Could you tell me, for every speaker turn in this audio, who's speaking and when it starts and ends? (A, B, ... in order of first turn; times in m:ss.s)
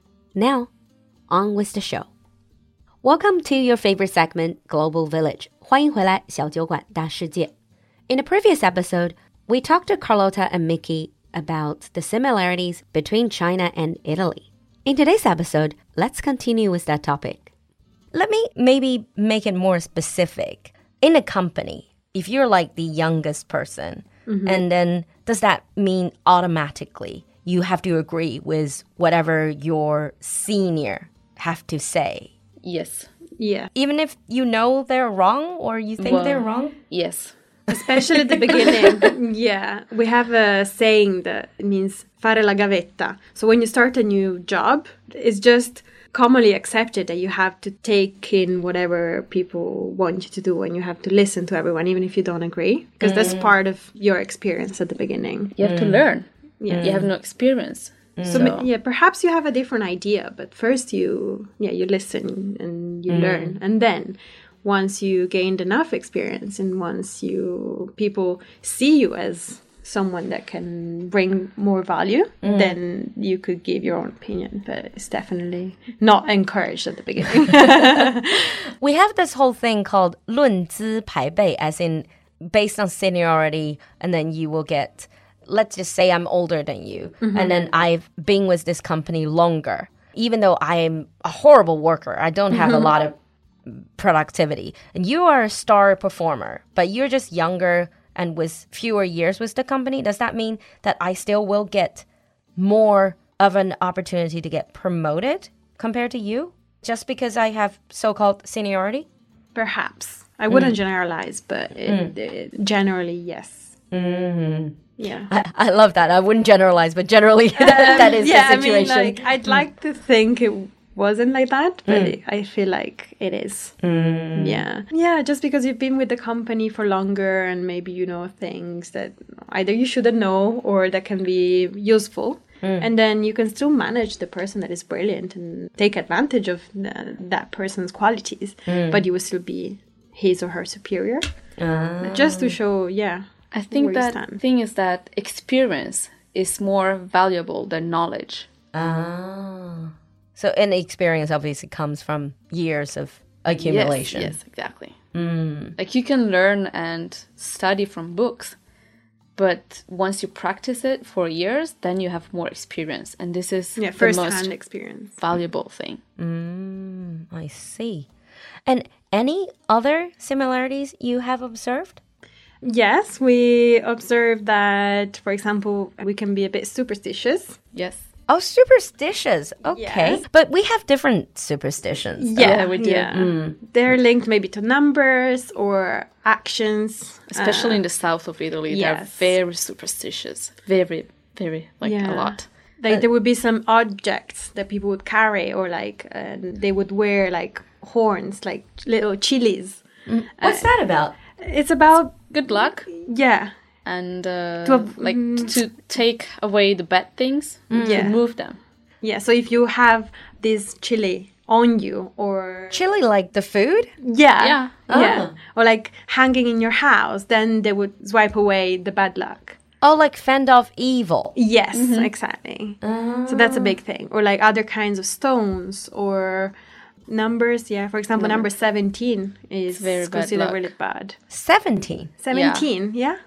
0:00.3-0:00.7 A
0:01.3-0:02.1 A
0:03.0-0:07.5 A
0:08.1-0:17.5 A
0:18.1-0:32.3 A
0:24.3-0:24.6 B
0:32.6-0:33.1 C
0:33.4-0:33.7 B
0:33.7-0:36.8 A
0:36.0-0:37.3 C
0:37.7-0:55.5 B
0:53.0-0:53.5 A
0:55.5-0:58.6 C
0:55.6-0:56.0 A
0:56.6-0:56.9 B
0:56.7-0:57.1 A
0:58.2-0:58.6 A
0:58.2-1:18.5 B
1:03.1-1:03.6 A
1:12.4-1:12.8 A
1:18.8-1:33.1 A
1:27.2-1:27.5 B
1:32.5-1:32.9 B
1:33.6-1:42.0 A
1:42.6-1:49.0 A
1:49.5-1:53.7 B
1:50.5-1:50.8 A
1:51.9-1:52.1 A
1:53.9-1:59.6 A
1:55.0-1:55.3 B
1:57.6-2:03.7 B
2:01.9-2:02.2 A
2:03.8-2:04.6 A
2:04.3-2:21.3 B
2:12.6-2:12.9 A
2:18.7-2:19.0 A
2:21.6-2:22.6 A
2:22.0-2:24.4 B
2:23.5-2:28.5 C
2:28.7-2:34.4 A
2:33.6-2:35.0 C
2:35.1-2:35.8 A
2:35.8-2:38.6 C
2:39.4-2:44.5 C
2:43.8-2:45.2 B
2:45.2-2:46.0 C
2:46.2-2:48.1 A
2:48.6-2:52.0 A
2:52.6-2:57.6 B
2:57.7-2:58.1 C
2:58.3-3:02.6 A
2:59.7-3:00.2 B
3:02.2-3:07.8 B
3:02.4-3:03.1 C
3:03.1-3:03.6 A
3:07.3-3:12.4 C
3:08.7-3:09.4 B
3:11.8-3:19.8 B
3:20.1-3:21.1 A
3:20.4-3:20.7 B
3:21.4-3:22.3 B
3:22.3-3:22.9 C
3:22.9-3:23.5 B
3:23.8-3:28.6 C
3:24.6-3:25.6 B
3:27.7-3:28.1 A
3:27.8-3:28.2 B
3:29.0-3:32.8 B
3:32.7-3:33.9 A
3:34.0-3:39.6 B
3:34.4-3:34.8 C
3:34.9-3:35.3 A
3:39.8-3:41.3 A
3:41.3-3:46.5 B
3:41.7-3:42.1 C
3:42.8-3:43.8 A
3:47.1-3:51.2 B
3:48.2-3:48.5 C
3:49.7-3:50.7 C
3:51.3-3:52.1 A
3:52.2-3:53.2 B
3:52.3-3:52.7 C